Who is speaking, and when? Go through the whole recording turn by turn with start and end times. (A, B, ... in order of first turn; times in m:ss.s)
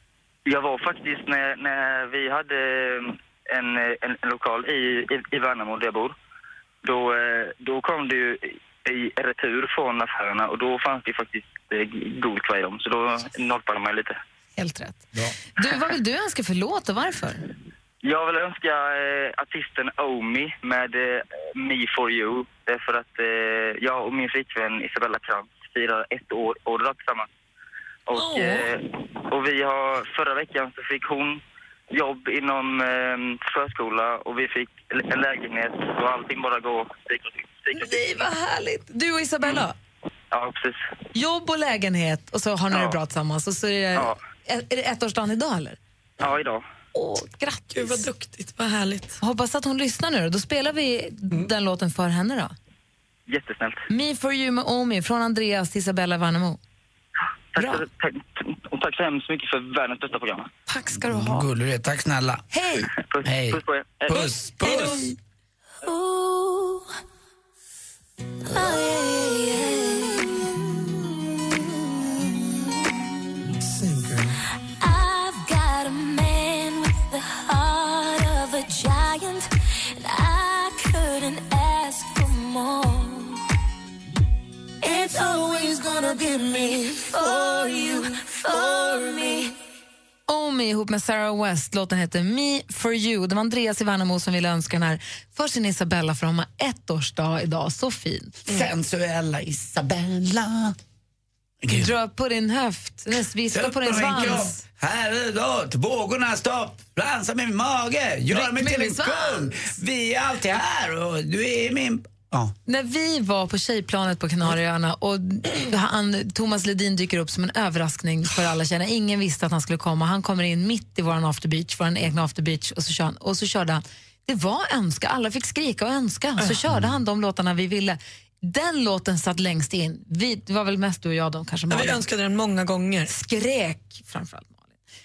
0:00.5-0:06.1 A
0:06.8-0:14.2 A
0:14.6-0:17.4 B
0:18.0-0:27.3 A
0:28.1-0:38.0 A
0:28.1-0:28.7 C
0:37.7-0:39.8 B
0:40.3-0:40.8 A
0:41.1-0:45.8 B
0:42.7-0:43.0 A
0:46.2-0:46.6 A
0:47.0-0:47.9 B
0:47.7-0:49.2 C
0:49.2-0:52.5 B
0:53.3-0:53.8 A
0:53.9-0:56.6 B
0:57.5-1:00.5 A
0:57.6-0:57.9 B
1:00.7-1:01.4 B
1:00.9-1:02.4 D
1:02.5-1:02.9 B
1:03.0-1:04.3 A
1:03.2-1:05.1 D
1:04.6-1:05.1 C
1:05.8-1:06.9 E
1:08.5-1:10.5 E
1:14.8-1:23.4 E
1:24.8-1:29.6 E
1:30.3-1:38.6 B
1:38.5-1:40.8 D
1:41.6-1:41.9 D
1:41.7-1:44.6 B
1:43.5-1:52.5 D
1:48.3-1:49.6 B
1:52.7-2:12.0 B
2:06.7-2:07.0 D
2:11.7-2:13.1 C
2:13.1-2:14.7 B